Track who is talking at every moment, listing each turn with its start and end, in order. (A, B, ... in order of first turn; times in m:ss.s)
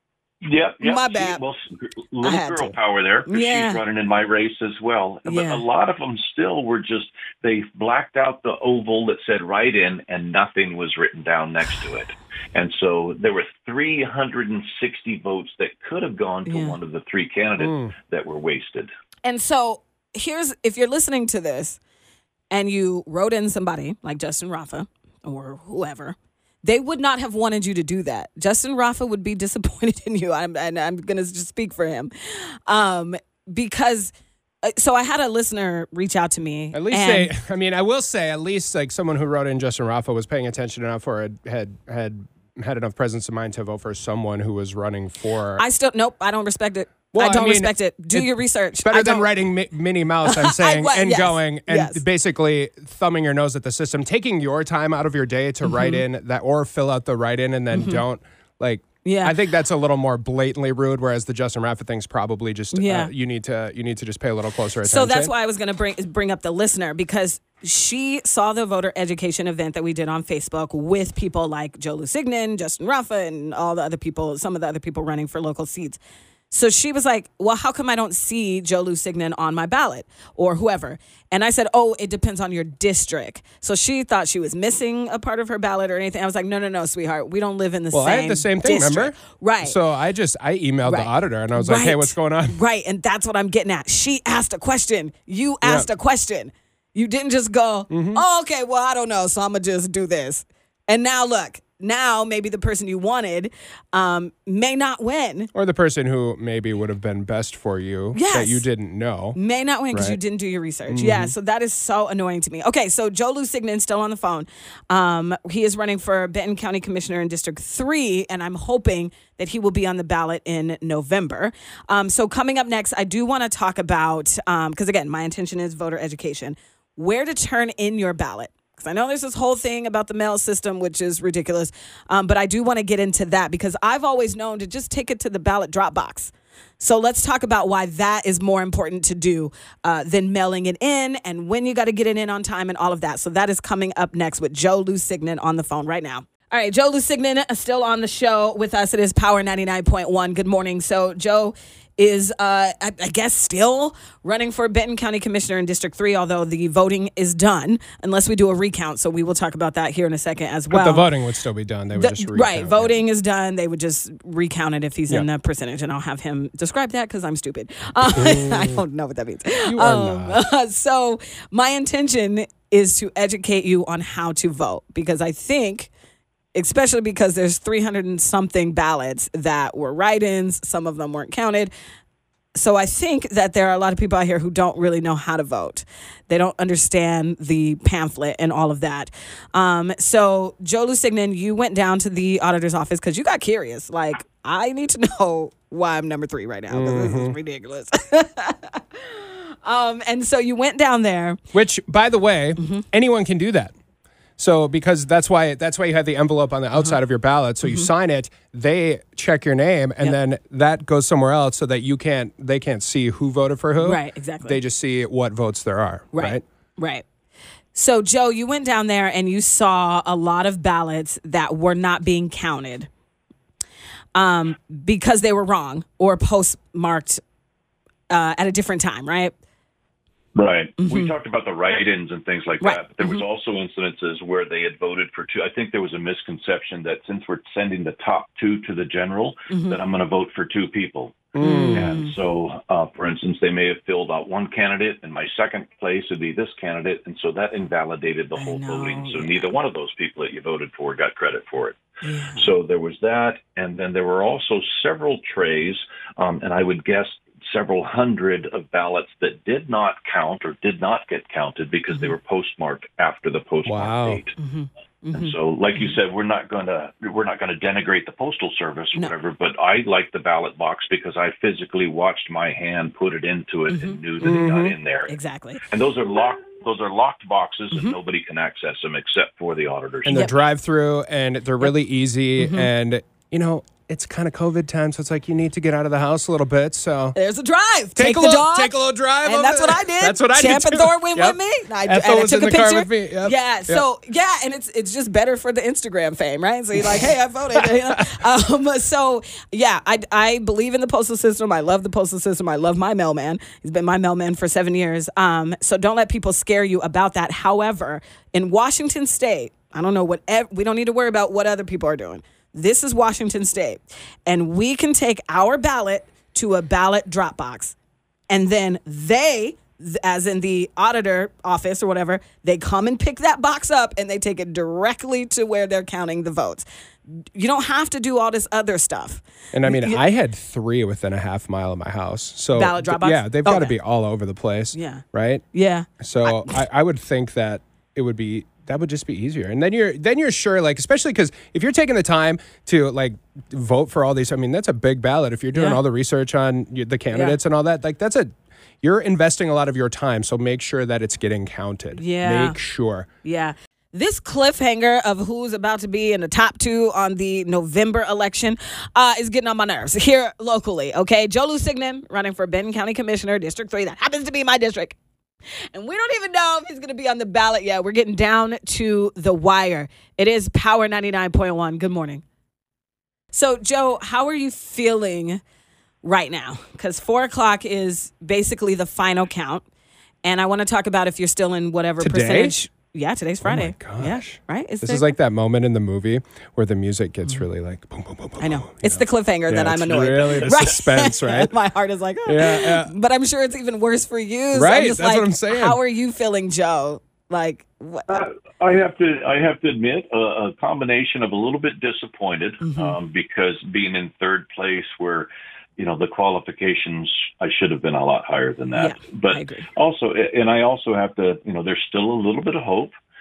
0:00.4-0:18.9 A
0:00.8-0:01.4 B
0:02.2-0:03.8 B
0:05.2-0:05.6 B
0:16.4-0:16.8 B
0:17.6-0:17.9 C
0:19.2-0:21.8 B
0:22.5-0:37.3 B
0:36.7-0:45.6 C
0:45.6-0:49.3 B
0:47.1-1:05.3 C
0:50.2-0:52.0 B
0:55.6-0:56.0 B
0:57.7-0:58.0 B
0:59.0-0:59.3 B
1:02.7-1:03.1 B
1:04.8-1:16.0 B
1:16.5-1:29.8 B
1:27.9-1:32.6 C
1:30.8-1:45.5 B
1:37.9-1:38.2 C
1:45.5-1:49.4 C
1:48.1-1:48.6 B
1:49.3-2:41.1 B
1:49.9-1:50.2 C
1:50.9-1:51.3 C
2:40.7-2:43.0 C
2:41.9-2:55.9 B
2:48.1-2:48.8 C
2:49.7-2:50.4 C
2:56.5-3:01.7 B
3:02.6-3:21.4 B
3:16.7-3:17.4 C
3:21.5-3:23.7 C
3:22.6-3:22.8 B
3:24.4-3:36.4 C
3:27.6-3:27.9 B
3:33.8-3:34.6 B
3:36.1-3:37.0 B
3:37.7-3:42.9 B
3:44.1-3:47.2 B
3:48.1-3:49.3 B
3:50.3-4:11.8 A
3:50.8-3:51.1 B
3:52.6-3:53.2 B
3:59.5-3:59.8 B
4:01.3-4:01.9 C
4:01.4-4:02.1 B
4:08.4-4:09.6 B
4:12.0-4:12.5 B
4:12.4-4:24.4 A
4:21.9-4:22.1 B
4:23.6-4:24.2 C
4:24.4-4:26.0 B
4:25.1-4:35.1 A
4:33.7-4:34.0 B
4:34.2-4:34.7 C
4:35.1-4:35.6 B
4:35.6-4:40.2 A
4:40.0-4:47.2 C
4:40.1-4:40.3 B
4:42.4-4:42.7 B
4:47.1-5:17.7 B
4:48.0-4:53.8 C
4:57.5-4:58.0 C
5:18.3-5:30.0 B
5:29.5-5:35.4 C
5:32.5-5:33.7 B
5:34.7-5:36.6 B
5:36.0-5:48.3 C
5:45.5-5:45.8 B
5:47.1-5:47.4 B
5:48.8-5:53.1 C
5:52.0-5:52.6 B
5:53.2-6:05.0 B
6:05.7-6:12.2 B
6:13.3-6:15.4 B
6:16.0-6:19.6 B
6:20.2-6:25.1 B
6:22.0-6:22.5 C
6:23.4-6:31.5 C
6:28.4-6:38.2 B
6:32.2-6:32.9 C
6:34.5-6:35.8 C
6:38.1-6:52.9 A
6:42.6-6:43.0 B
6:48.8-6:49.7 B